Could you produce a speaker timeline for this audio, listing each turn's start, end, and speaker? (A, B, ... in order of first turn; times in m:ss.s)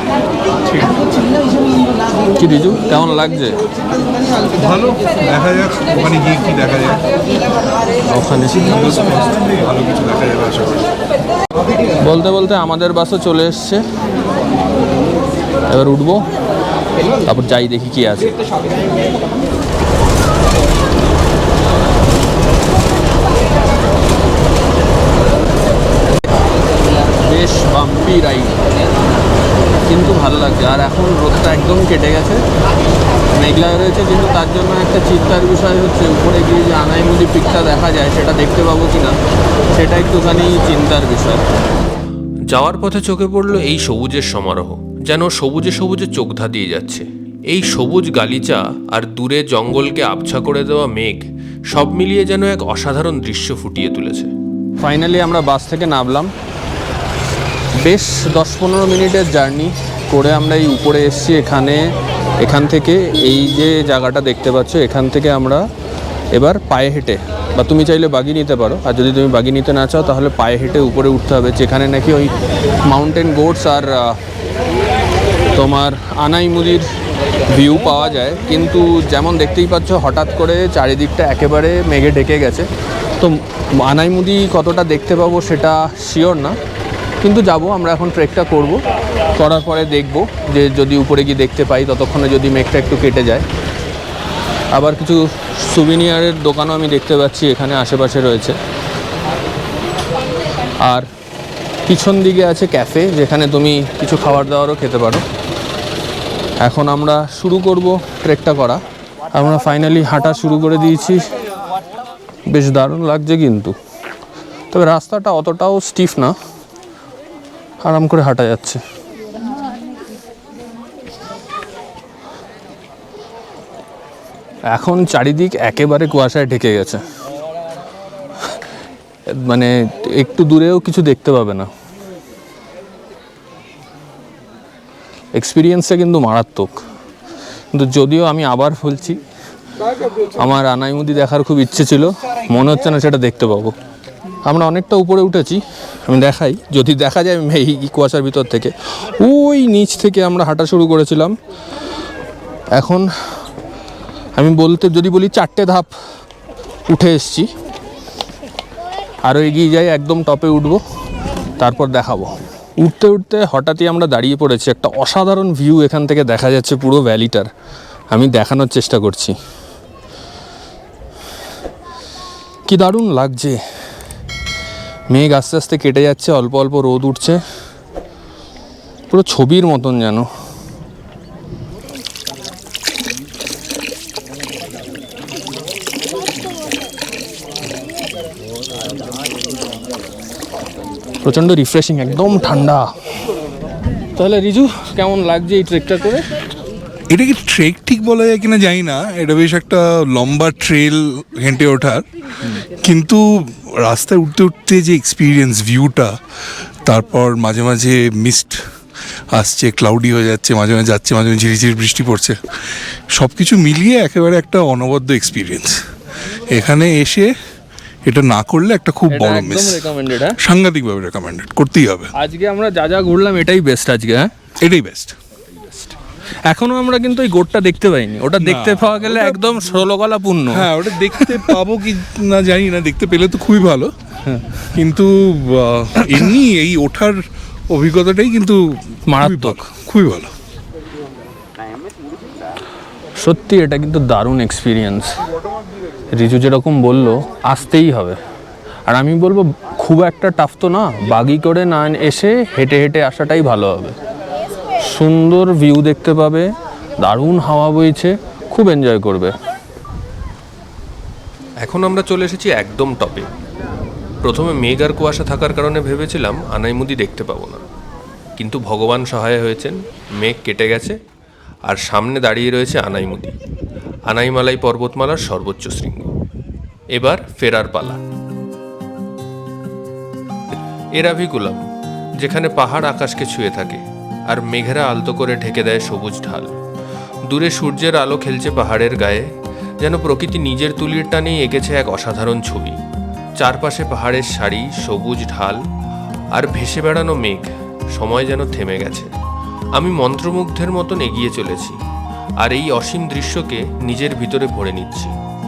0:02.4-0:03.6 A
0:04.5-0:07.0 B
0:08.1-0:09.3 A
0:09.5-0:10.8 B
0:12.0-0:13.8 A
0:15.7-0:16.3 A
0:17.2-0:18.4 A
0:27.2-0:28.6 A
0:29.8-0:32.4 A
0:33.3-0:39.2 A
0:39.7-0:41.4 A
0:42.5-0:54.3 C
0:54.8-0:56.3 A
0:57.8-1:05.6 A
1:06.3-1:14.2 A
1:15.5-1:16.9 A
1:17.5-1:26.6 A
1:27.2-1:28.8 A
1:29.4-1:33.4 A
1:34.7-1:38.6 A
1:40.8-1:41.1 A
1:41.9-1:45.2 A
1:46.6-1:48.8 A
1:49.3-1:51.3 A
1:52.5-1:53.7 A
1:54.7-1:56.3 A
1:57.8-1:58.8 A
2:04.7-2:07.0 A
2:09.3-2:11.7 A
2:15.3-2:16.8 A
2:17.7-2:19.2 A
2:20.4-2:23.8 A
2:24.4-2:31.3 A
2:32.8-2:33.0 A
2:34.4-2:35.9 A
2:36.9-2:37.5 A
2:39.2-2:40.8 A
2:41.6-2:47.5 A
2:48.1-2:49.3 A
2:52.7-2:53.6 A
2:55.1-2:57.4 A
2:59.1-3:00.3 A
3:11.2-3:12.9 A
3:14.1-3:16.3 A
3:17.1-3:26.2 B
3:26.8-3:28.6 B
3:29.3-3:35.8 B
3:36.5-3:37.3 B
3:38.0-3:42.1 B
3:39.1-3:40.4 A
3:42.1-3:44.3 A
3:44.6-3:45.2 B
3:46.5-3:51.6 A
3:48.4-3:49.8 B
3:50.5-3:53.9 B
3:54.6-4:00.3 B
3:59.1-3:59.7 A
4:03.2-4:05.1 A
4:06.1-4:08.2 A
4:08.9-4:13.9 A
4:14.8-4:19.3 A
4:21.6-4:23.3 C
4:24.2-4:27.6 C
4:28.4-4:31.0 C
4:31.7-4:33.3 C
4:34.1-4:36.1 C
4:36.9-4:38.0 C
4:41.0-4:41.6 C
4:42.2-4:46.6 C
4:47.2-4:52.8 C
4:53.4-4:55.6 C
4:56.3-4:59.1 C
4:59.7-5:01.8 C
5:02.4-5:05.2 C